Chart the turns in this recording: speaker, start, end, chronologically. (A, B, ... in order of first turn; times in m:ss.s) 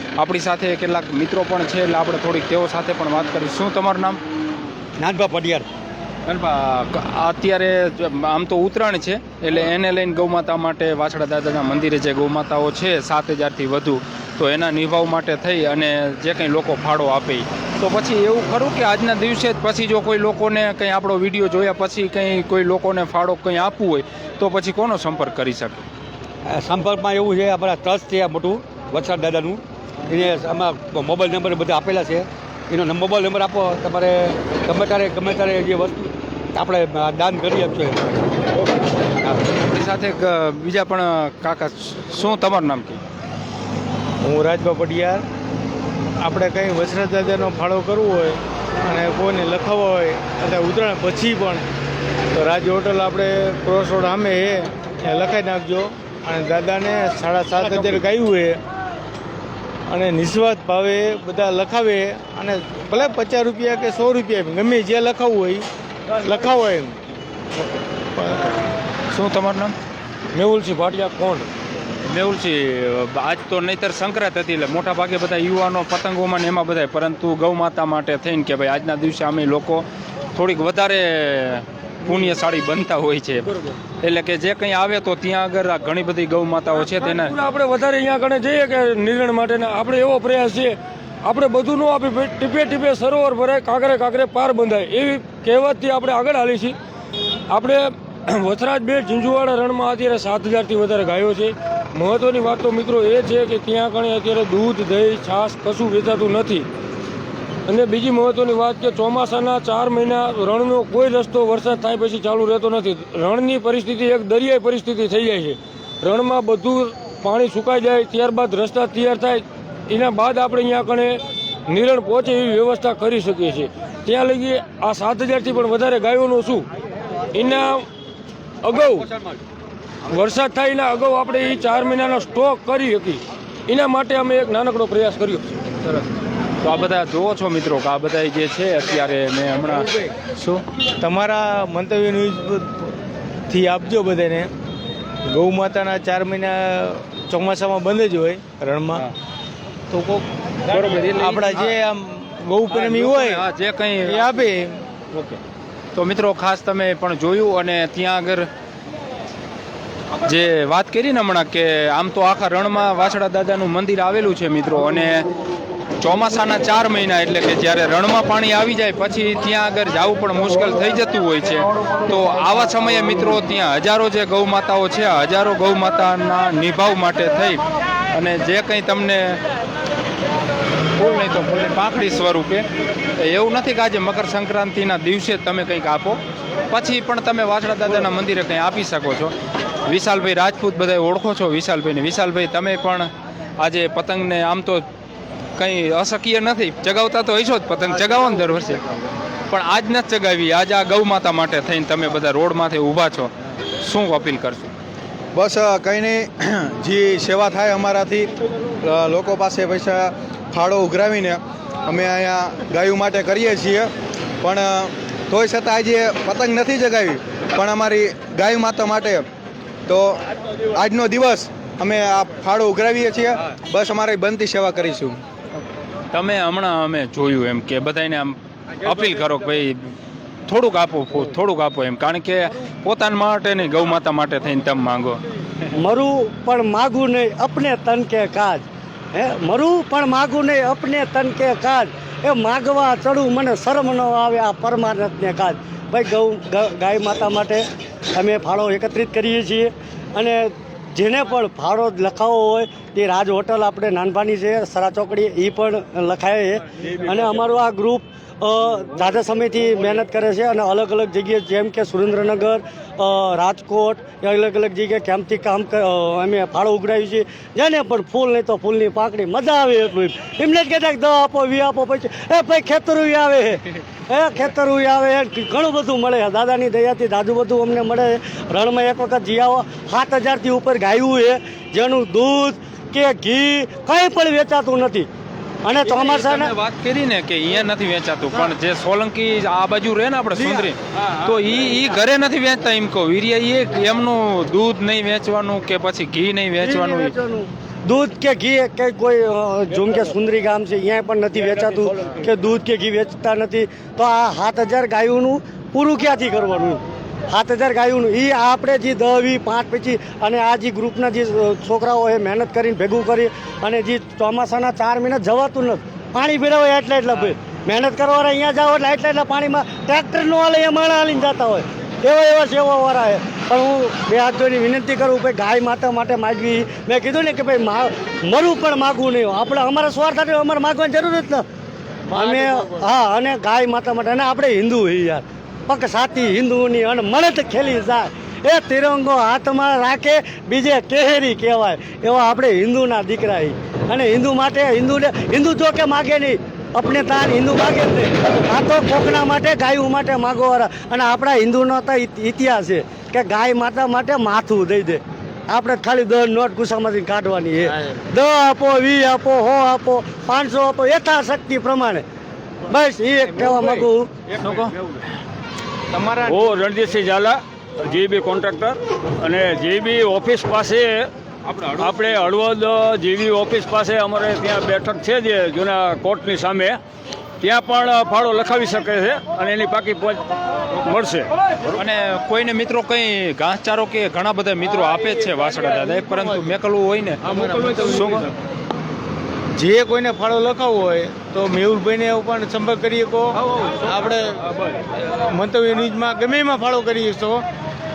0:00.2-0:04.2 A
0:05.0-0:05.7 B
0:06.3-0:25.8 A
0:26.5-0:38.2 B
0:39.6-0:43.0 A
0:44.2-0:45.2 C
0:46.2-0:51.6 C
0:52.4-0:58.6 C
0:59.9-1:05.7 C
1:06.2-1:07.0 C
1:08.2-1:08.5 C
1:09.1-1:09.7 A
1:10.3-1:11.5 D
1:12.1-1:23.5 A
1:24.0-1:27.4 A
1:27.0-1:36.8 D
1:37.5-1:46.7 D
1:47.7-2:06.7 D
2:07.3-2:07.9 D
2:08.6-2:09.1 D
2:10.1-2:15.6 D
2:16.6-2:19.9 A
2:21.0-2:22.9 C
2:23.5-2:24.5 C
2:25.3-2:29.1 C
2:29.9-2:30.2 C
2:30.7-2:31.7 A
2:31.2-2:33.4 C
2:32.7-2:34.2 A
2:34.0-2:34.8 C
2:36.0-2:38.5 A
2:40.2-2:45.3 A
2:46.0-2:57.6 A
2:58.1-2:59.4 A
3:01.0-3:02.6 A
3:03.2-3:06.2 A
3:06.7-3:09.3 A
3:09.9-3:13.1 A
3:13.6-3:14.9 A
3:15.6-3:18.8 A
3:19.5-3:24.7 A
3:25.4-3:28.3 E
3:28.8-3:39.3 E
3:39.9-3:40.2 E
3:40.7-3:45.2 E
3:46.1-3:49.9 A
3:50.5-3:55.2 A
3:55.8-4:07.6 F
4:08.2-4:45.1 F
4:45.6-4:46.5 F
4:45.8-4:57.1 A
4:56.6-5:31.4 F
5:32.1-6:02.0 F
6:02.7-6:04.1 F
6:04.4-6:04.8 G
6:05.9-6:06.5 C
6:06.3-6:16.8 G
6:17.4-6:21.3 G
6:21.8-6:28.3 A
6:27.2-6:28.3 C
6:29.6-6:37.4 C